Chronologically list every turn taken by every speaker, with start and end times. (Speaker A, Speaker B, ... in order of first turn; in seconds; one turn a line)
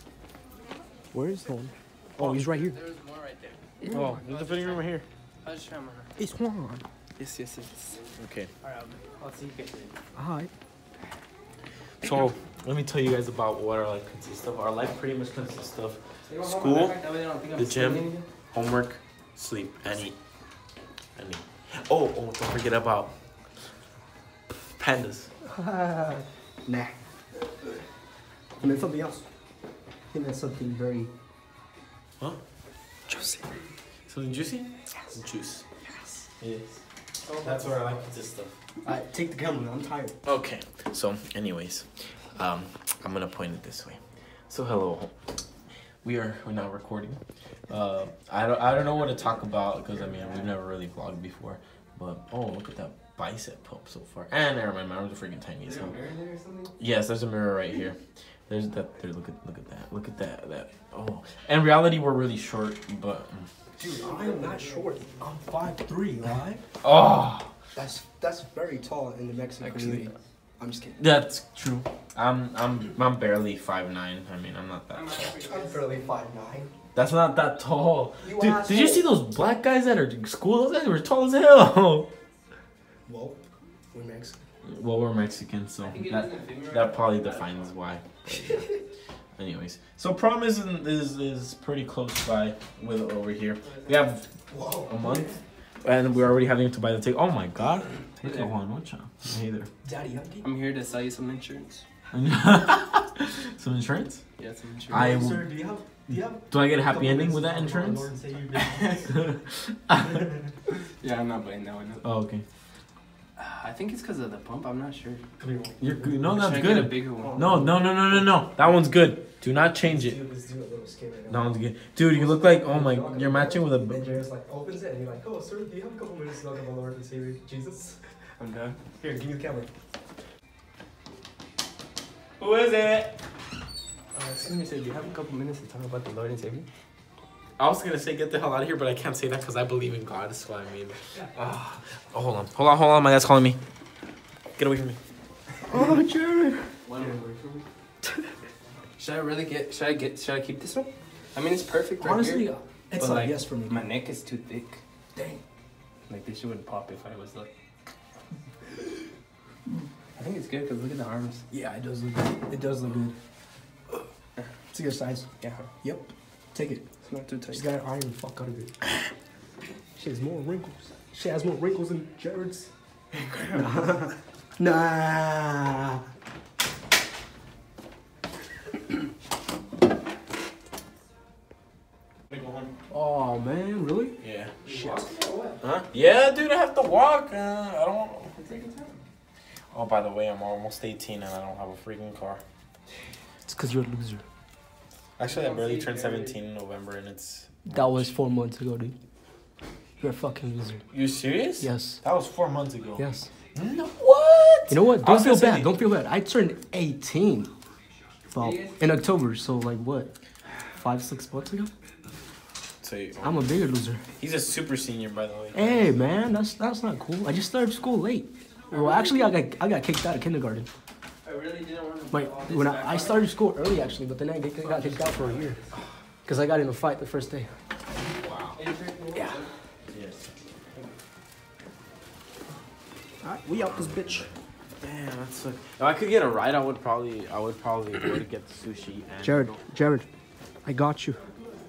Speaker A: 1.1-2.8
Speaker B: 2.2-2.4
Speaker C: 2.6-3.6
Speaker A: 3.8-4.2
Speaker B: 3.9-5.0
Speaker C: 4.2-4.8
Speaker C: 5.4-6.1
Speaker A: 6.2-6.8
Speaker C: 7.2-8.1
Speaker B: 8.2-8.5
Speaker C: 8.6-9.9
Speaker A: 10.1-10.5
Speaker B: 12.0-17.0
Speaker C: 16.3-18.2
Speaker B: 17.5-20.1
Speaker B: 21.1-23.1
Speaker B: 24.8-25.3
Speaker A: 25.5-26.9
Speaker A: 28.6-29.2
Speaker A: 30.1-31.1
Speaker A: 33.1-33.5
Speaker B: 34.1-35.6
Speaker A: 35.8-36.2
Speaker B: 36.4-36.8
Speaker C: 37.3-38.0
Speaker B: 37.4-38.5
Speaker A: 38.8-40.2
Speaker B: 40.2-45.1
Speaker B: 46.0-56.0
Speaker C: 49.8-50.5
Speaker C: 55.6-56.7
Speaker B: 56.8-63.5
Speaker A: 63.8-66.6
Speaker C: 64.0-65.0
Speaker B: 66.8-67.5
Speaker A: 67.7-71.0
Speaker B: 69.6-70.0
Speaker B: 71.0-75.2
Speaker C: 74.9-76.1
Speaker A: 75.3-76.7
Speaker B: 76.9-82.1
Speaker A: 78.2-79.1
Speaker A: 83.1-84.4
Speaker B: 84.6-88.7
Speaker C: 85.8-87.7
Speaker B: 89.4-94.3
Speaker C: 93.6-94.0
Speaker A: 94.5-95.4
Speaker B: 94.8-99.7
Speaker C: 98.2-98.5
Speaker A: 99.8-100.5
Speaker C: 100.4-101.8
Speaker B: 102.1-104.2
Speaker C: 104.4-105.1
Speaker B: 104.9-105.5
Speaker A: 104.9-109.2
Speaker B: 106.1-108.1
Speaker C: 108.5-109.0
Speaker B: 109.1-110.2
Speaker C: 111.0-112.0
Speaker B: 112.0-112.4
Speaker C: 113.4-115.2
Speaker A: 115.4-116.1
Speaker B: 115.8-120.2
Speaker C: 116.2-117.5
Speaker A: 117.2-118.3
Speaker A: 119.8-128.0
Speaker B: 121.3-124.2
Speaker C: 128.4-128.8
Speaker A: 128.9-129.7
Speaker B: 132.4-133.2
Speaker C: 134.1-136.7
Speaker B: 137.6-143.6
Speaker B: 144.6-145.0
Speaker A: 145.7-146.7
Speaker C: 146.9-147.6
Speaker C: 149.0-154.8
Speaker A: 152.0-153.9
Speaker A: 155.1-155.4
Speaker C: 156.1-157.5
Speaker C: 160.2-161.4
Speaker A: 161.5-163.1
Speaker A: 164.7-165.3
Speaker C: 165.4-165.7
Speaker A: 165.8-166.8
Speaker C: 167.0-167.7
Speaker A: 167.5-168.7
Speaker A: 169.9-172.7
Speaker B: 173.1-173.8
Speaker A: 173.5-176.0
Speaker B: 182.3-182.7
Speaker A: 182.9-185.1
Speaker B: 184.2-184.5
Speaker C: 184.6-185.6
Speaker B: 185.6-188.3
Speaker C: 188.3-189.0
Speaker B: 189.7-192.4
Speaker A: 193.4-194.2
Speaker B: 195.2-198.1
Speaker C: 195.2-196.4
Speaker A: 197.7-198.9
Speaker A: 200.0-200.8
Speaker B: 200.9-205.7
Speaker A: 201.6-202.0
Speaker A: 203.0-203.3
Speaker A: 204.7-207.5
Speaker A: 208.3-210.1
Speaker C: 208.4-208.8
Speaker A: 210.8-211.7
Speaker B: 212.8-213.5
Speaker A: 213.2-214.0
Speaker B: 214.2-216.0
Speaker A: 215.5-220.7
Speaker C: 218.7-219.3
Speaker C: 221.2-223.3
Speaker A: 222.1-225.6
Speaker C: 224.6-225.7
Speaker A: 226.2-227.5
Speaker B: 228.1-228.6
Speaker C: 228.5-229.5
Speaker A: 229.1-229.4
Speaker B: 229.9-230.3
Speaker A: 233.2-234.3
Speaker B: 234.8-239.6
Speaker A: 239.2-240.1
Speaker A: 240.6-241.2